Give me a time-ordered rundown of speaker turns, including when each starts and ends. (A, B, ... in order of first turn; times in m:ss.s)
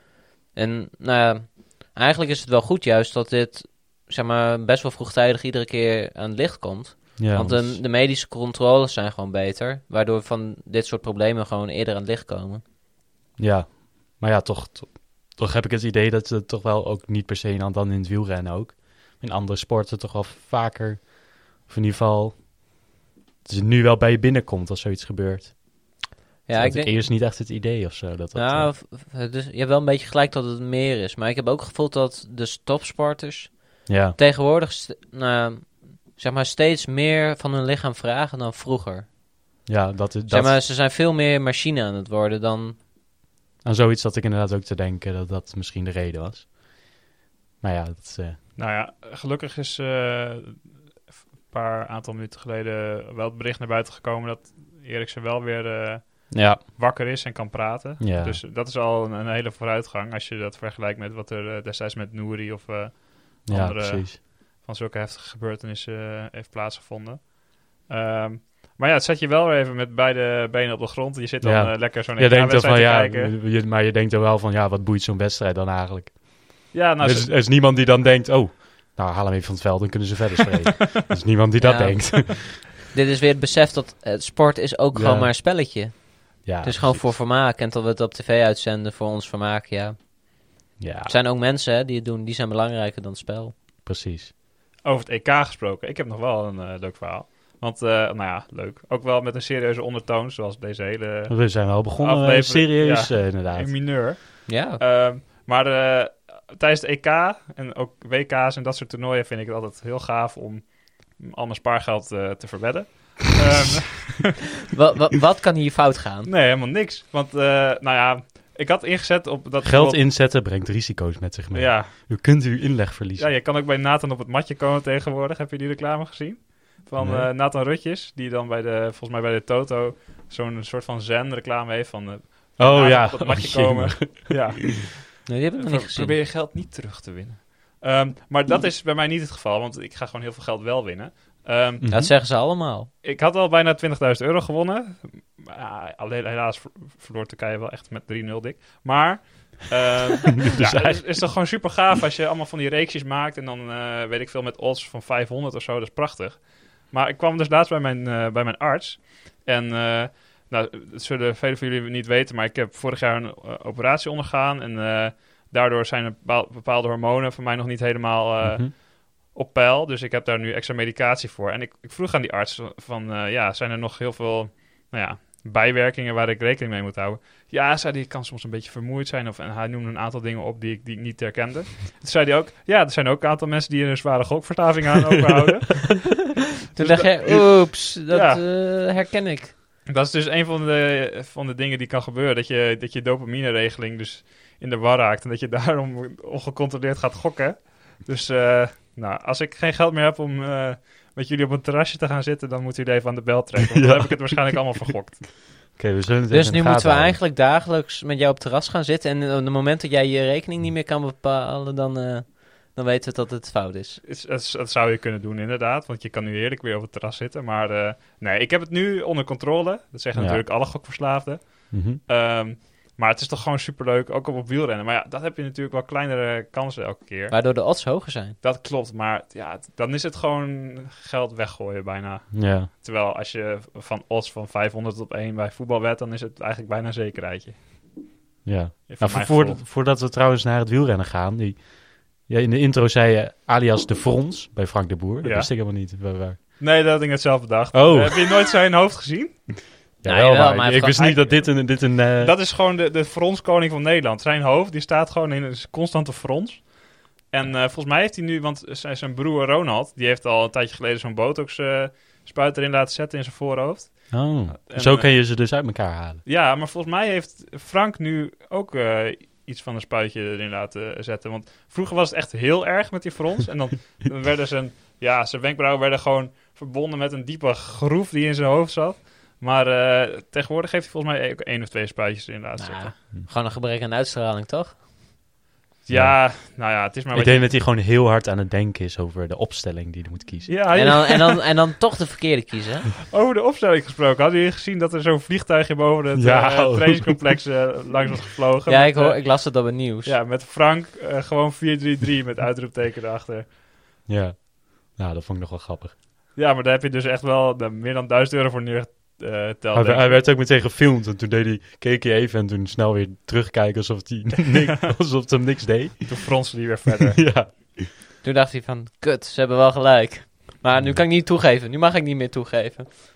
0:00.5-0:12.6 A
0:07.2-0:07.8 B
0:13.4-0:22.6 B
0:23.4-0:26.0 B
0:26.5-0:27.0 A
0:26.5-0:28.7 B
0:28.3-0:39.1 A
0:33.8-0:34.2 B
0:39.6-0:40.6 B
0:40.3-0:42.8 A
0:43.6-0:46.5 B
0:47.6-0:48.4 B
0:48.6-1:13.3 C
0:56.3-0:56.6 B
0:58.0-0:58.4 B
1:03.4-1:04.2 B
1:11.4-1:22.6 B
1:16.7-1:17.3 C
1:21.6-1:30.1 A
1:24.9-1:25.3 B
1:26.4-1:27.1 B
1:30.8-1:31.2 B
1:31.0-1:33.6 A
1:33.8-1:34.3 B
1:34.8-1:54.3 C
1:41.3-1:43.7 B
1:44.4-1:44.8 A
1:54.7-1:56.3 A
1:56.2-2:00.0 C
1:59.6-2:03.3 B
2:01.5-2:01.9 C
2:03.2-2:21.8 C
2:07.0-2:07.3 B
2:12.6-2:14.6 B
2:15.2-2:16.2 A
2:21.8-2:22.1 B
2:21.9-2:22.9 A
2:23.0-3:06.2 C
2:30.5-2:31.2 B
2:48.4-2:48.7 B
3:06.7-3:09.5 A
3:06.7-3:08.4 C
3:09.9-3:25.4 C
3:23.7-3:24.6 B
3:25.8-3:27.2 B
3:26.3-3:34.0 A
3:34.0-3:47.4 C
3:40.1-3:40.4 B
3:41.7-3:42.0 B
3:47.3-3:48.4 A
3:48.4-3:57.8 C
3:52.3-3:52.7 B
3:58.4-4:06.4 B
3:58.9-3:59.6 C
4:05.2-4:05.5 C
4:06.6-4:09.7 C
4:07.7-4:08.2 B
4:10.0-4:12.4 B
4:10.0-4:11.0 A
4:10.9-4:25.2 C
4:24.1-4:26.2 B
4:26.2-4:43.0 C
4:42.6-4:44.8 A
4:45.8-4:47.5 C
4:45.9-4:50.8 B
4:50.5-4:51.4 C
4:50.7-4:52.9 A
4:53.1-5:03.4 C
4:56.1-4:57.2 B
4:58.7-5:00.1 A
5:04.1-5:05.9 B
5:06.3-5:10.3 C
5:09.7-5:17.9 B
5:16.0-5:17.3 C
5:18.2-5:22.9 A
5:20.8-5:21.0 B